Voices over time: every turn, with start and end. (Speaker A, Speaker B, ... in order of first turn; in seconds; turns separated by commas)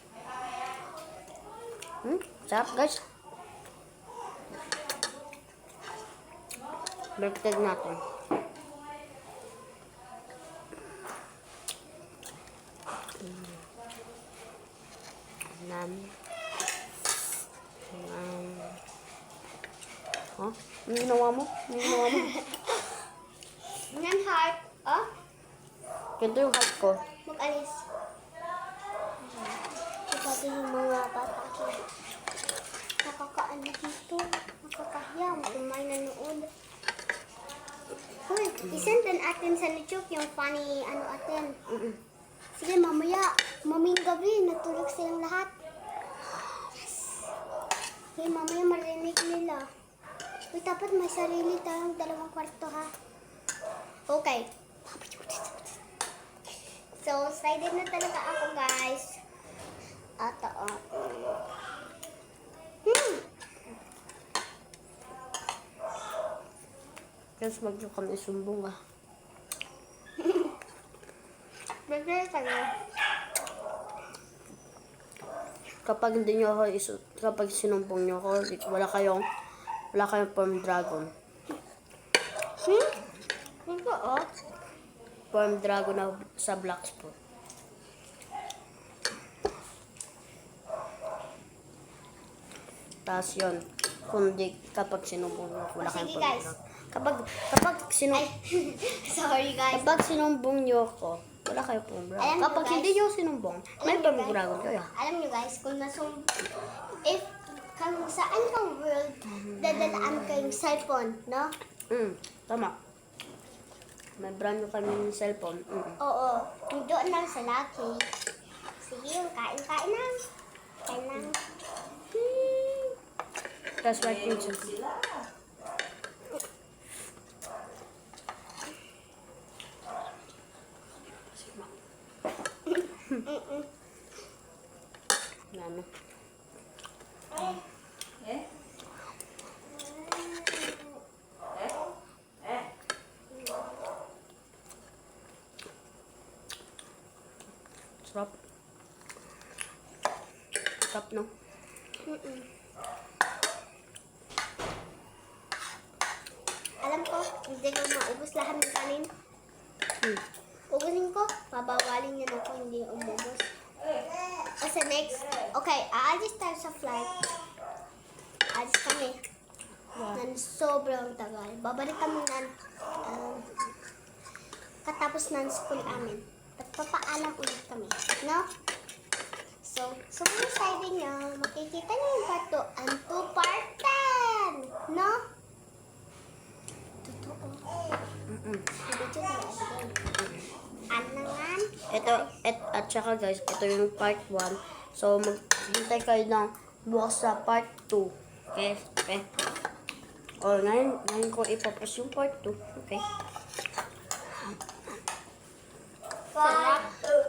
Speaker A: 2.0-3.0, Speaker A: 7.2-8.0, Speaker A: 13.2-13.6, Speaker A: 15.5-16.1, Speaker A: 17.9-18.8, Speaker A: 20.4-22.3, Speaker B: 22.0-22.6, Speaker B: 23.9-25.1, Speaker A: 26.2-27.0, Speaker B: 27.2-27.8, Speaker B: 29.2-31.8, Speaker B: 33.0-36.5, Speaker B: 38.2-41.6, Speaker A: 41.7-42.0, Speaker B: 42.6-45.5, Speaker B: 48.2-49.7, Speaker B: 50.5-52.9, Speaker B: 54.1-55.8, Speaker B: 57.0-59.2, Speaker B: 60.2-61.4, Speaker B: 62.8-63.2, Speaker A: 67.4-68.8, Speaker B: 70.2-70.5, Speaker B: 71.9-72.7, Speaker A: 75.8-79.2, Speaker A: 79.9-81.1, Speaker B: 82.6-83.0, Speaker B: 83.7-84.3, Speaker A: 85.3-87.2, Speaker A: 93.0-98.2, Speaker B: 95.8-96.5, Speaker B: 98.1-100.0, Speaker A: 99.7-104.9, Speaker B: 102.2-103.0, Speaker B: 103.8-106.5, Speaker B: 107.0-111.5, Speaker A: 109.3-110.4, Speaker A: 111.9-112.7, Speaker A: 114.2-116.0, Speaker B: 116.0-118.0, Speaker B: 118.8-120.2, Speaker B: 120.9-121.4, Speaker B: 122.1-122.9, Speaker A: 123.8-124.7, Speaker C: 123.9-125.3, Speaker B: 133.2-133.7, Speaker A: 135.5-135.9, Speaker C: 138.2-138.5, Speaker B: 139.8-140.9, Speaker C: 142.4-142.7, Speaker B: 143.3-143.8, Speaker A: 148.0-148.3, Speaker A: 150.9-151.3, Speaker B: 152.0-152.5, Speaker B: 156.8-159.1, Speaker B: 160.7-163.5, Speaker B: 164.6-167.3, Speaker B: 168.5-169.2, Speaker A: 169.9-170.2, Speaker B: 170.1-172.5, Speaker B: 173.0-173.5, Speaker B: 174.8-178.5, Speaker B: 179.6-185.2, Speaker B: 187.0-187.7, Speaker A: 188.3-188.7, Speaker B: 188.7-190.0, Speaker A: 190.2-190.4, Speaker B: 190.9-192.3, Speaker A: 191.9-199.3, Speaker A: 200.4-203.0, Speaker B: 206.3-207.0, Speaker A: 206.4-206.8